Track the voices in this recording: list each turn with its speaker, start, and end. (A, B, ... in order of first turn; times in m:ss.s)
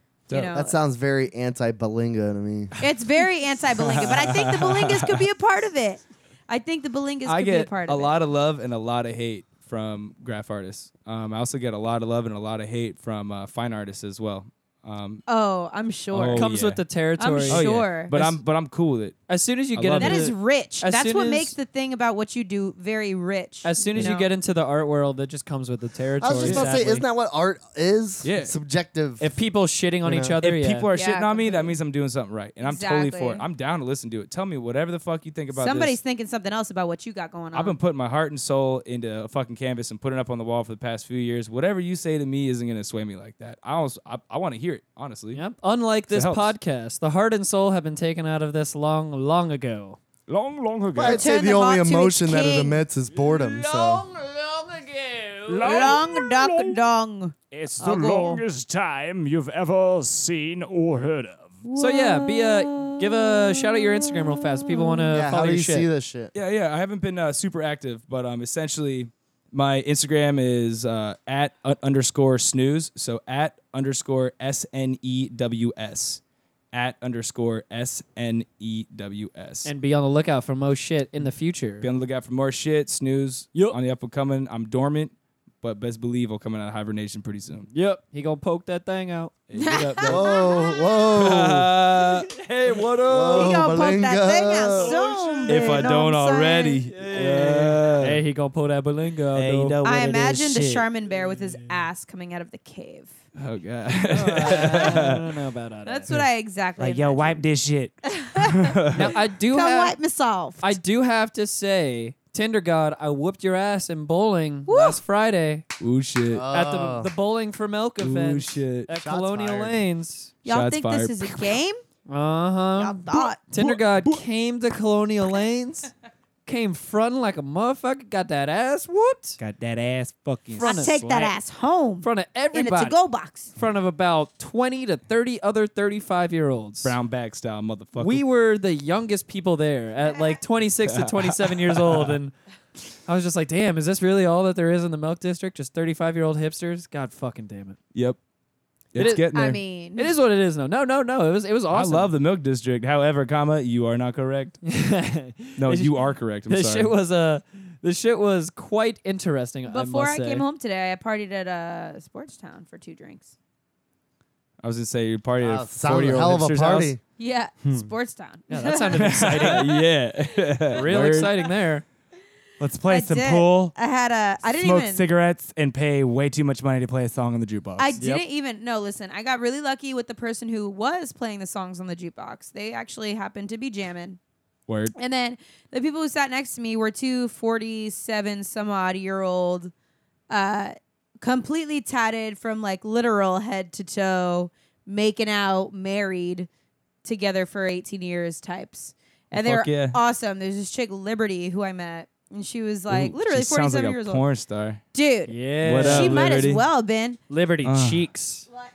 0:00.3-0:00.8 A
0:00.5-0:02.7 B
0:02.8-0:08.1 A
0:03.7-0:05.1 C
0:07.2-0:07.7 D
0:07.8-0:15.2 C
0:15.3-0:16.5 A
0:16.1-0:16.8 C
0:16.3-0:17.6 D
0:17.2-0:18.4 A
0:17.4-0:19.2 C
0:19.3-0:21.5 D
0:19.7-0:20.3 C
0:20.0-0:24.3 A
0:23.6-0:27.0 D
0:26.2-0:29.3 B
0:26.4-0:26.7 C
0:28.2-0:28.5 C
0:29.2-0:30.8 D
0:30.0-0:30.4 B
0:30.4-0:36.0 C
0:30.9-0:31.8 A
0:32.6-0:33.4 A
0:35.5-0:37.8 A
0:37.5-0:45.4 C
0:45.3-0:50.0 D
0:46.1-0:46.5 C
0:50.3-0:51.1 E
0:50.3-0:51.2 F
0:50.9-0:54.1 B
0:51.1-0:52.8 A
0:53.2-0:55.9 F
0:55.5-0:56.7 E
0:55.6-0:58.4 A
0:57.5-1:01.6 E
1:01.7-1:03.0 A
1:01.8-1:05.9 D
1:05.1-1:06.3 B
1:06.3-1:16.2 C
1:16.7-1:19.7 C
1:19.6-1:21.9 D
1:21.8-1:27.7 C
1:27.7-1:29.3 D
1:29.5-1:30.3 C
1:29.5-1:31.0 A
1:30.0-1:31.8 B
1:31.1-1:33.5 C
1:33.1-1:35.0 B
1:33.3-1:36.8 A
1:35.4-1:35.8 D
1:35.4-1:38.2 C
1:36.9-1:39.8 D
1:39.4-1:40.9 F
1:39.4-1:39.8 C
1:39.8-1:43.1 A
1:43.4-1:45.3 C
1:44.1-1:46.1 D
1:45.8-1:47.4 A
1:46.8-1:47.9 F
1:48.0-1:48.8 A
1:48.4-1:49.2 C
1:48.9-1:50.0 D
1:49.5-1:50.7 A
1:50.6-1:55.6 D
1:54.7-1:55.0 A
1:55.8-1:56.4 C
1:56.3-1:57.1 B
1:56.5-2:00.3 D
1:58.0-1:58.9 C
1:58.9-1:59.8 B
2:00.4-2:01.6 C
2:00.4-2:01.8 A
2:02.1-2:05.9 D
2:02.8-2:03.4 A
2:06.4-2:09.4 D
2:09.4-2:11.1 F
2:10.6-2:11.3 D
2:10.6-2:13.5 A
2:12.0-2:13.0 D
2:13.6-2:17.0 D
2:16.8-2:18.2 C
2:18.0-2:22.3 D
2:20.8-2:22.2 C
2:23.0-2:27.8 D
2:28.9-2:29.6 C
2:29.0-2:29.3 D
2:29.0-2:30.1 A
2:30.0-2:32.1 D
2:31.7-2:34.6 C
2:34.6-2:40.4 D
2:35.6-2:36.9 C
2:39.7-2:43.3 A
2:44.6-2:46.9 C
2:45.4-2:47.0 B
2:47.2-2:49.6 A
2:48.5-2:49.8 D
2:49.0-2:51.4 C
2:50.7-2:51.8 D
2:52.6-2:53.7 F
2:52.8-2:55.0 A
2:54.5-2:57.9 F
2:57.8-3:04.2 A
3:04.7-3:04.9 C
3:04.9-3:09.7 A
3:10.3-3:16.5 A
3:17.0-3:24.2 A
3:19.3-3:20.0 C
3:22.9-3:24.8 C
3:24.9-3:27.2 A
3:25.3-3:26.2 D
3:25.6-3:26.6 C
3:27.3-3:28.4 D
3:27.6-3:28.0 C